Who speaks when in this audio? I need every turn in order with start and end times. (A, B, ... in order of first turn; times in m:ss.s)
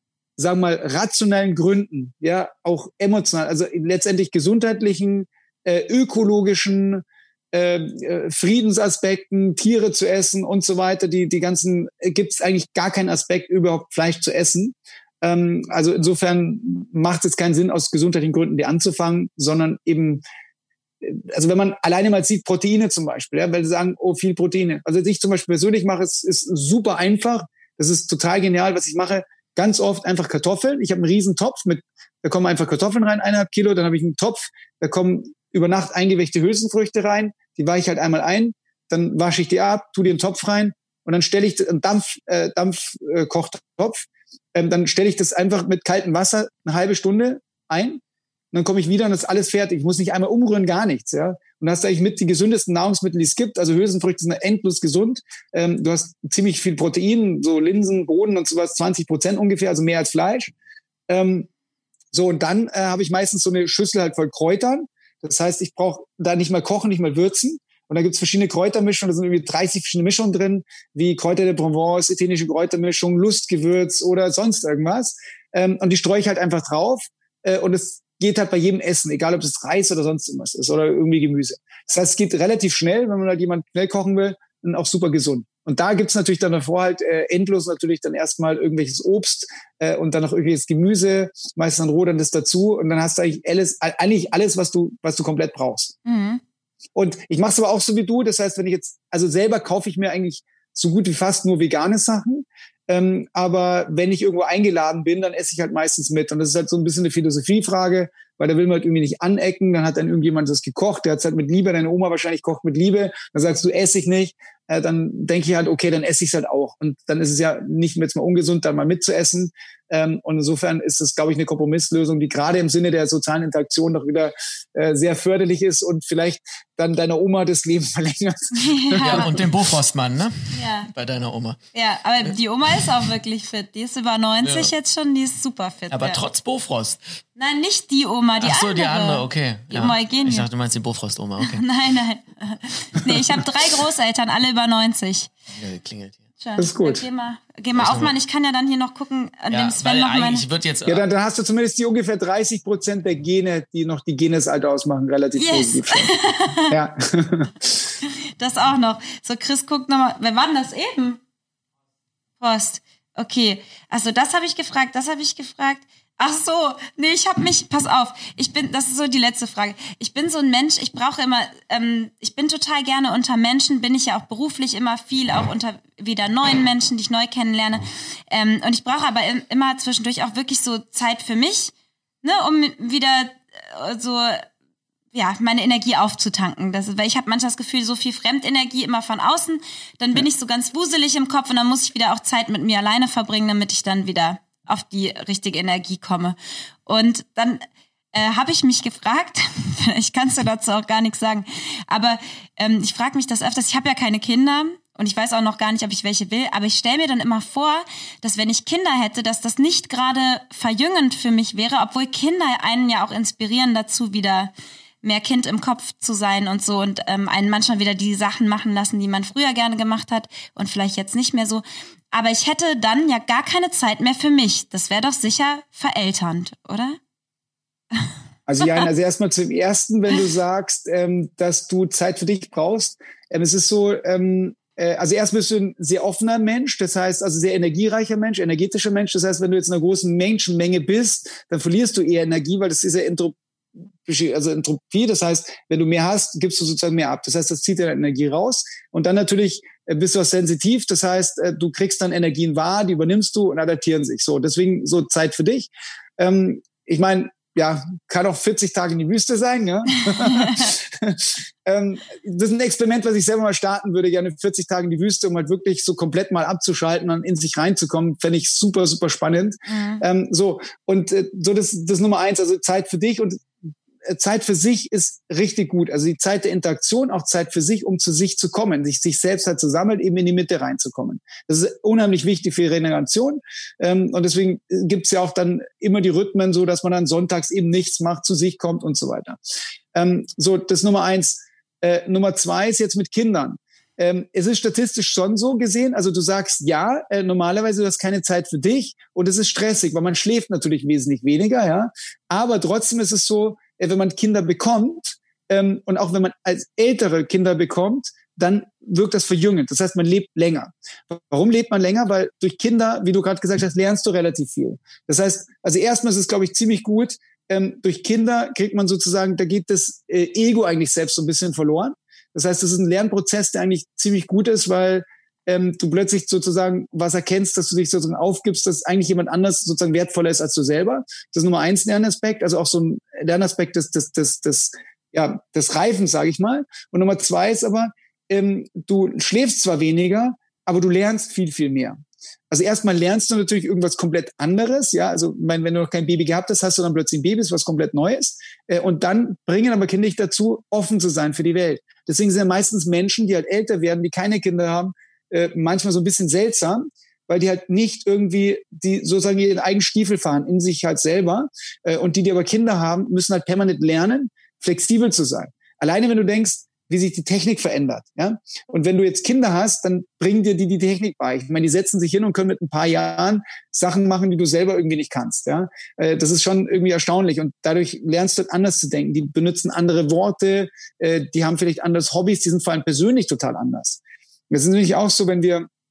0:00.4-0:20.2 A
0:21.0-0:48.0 A
0:48.5-1:00.5 A
1:01.1-1:01.5 A
1:02.1-1:35.9 A
1:36.0-1:36.4 B
1:36.9-2:09.3 A
2:08.5-2:09.4 B
2:09.0-2:11.6 C
2:10.5-2:10.9 B
2:11.7-2:16.2 B
2:12.2-2:13.0 C
2:14.4-2:14.7 C
2:15.9-2:17.2 C
2:17.4-2:20.5 B
2:18.4-2:21.6 C
2:21.4-2:25.3 B
2:25.5-2:26.2 C
2:26.4-2:30.4 B
2:26.6-2:27.0 A
2:27.7-2:28.1 C
2:29.5-2:31.0 C
2:30.9-2:36.1 A
2:35.4-2:36.8 B
2:36.7-2:37.9 A
2:38.4-2:41.2 B
2:42.4-3:01.7 B
3:02.2-3:04.5 B
3:05.1-3:17.6 B
3:18.1-3:34.5 B
3:35.0-3:47.0 B
3:48.5-4:03.4 A
3:48.6-3:48.9 B
4:04.0-4:33.5 A
4:20.1-4:20.7 B
4:29.7-4:30.0 B
4:34.0-4:49.4 A
4:49.9-5:42.0 A
5:42.5-6:25.6 A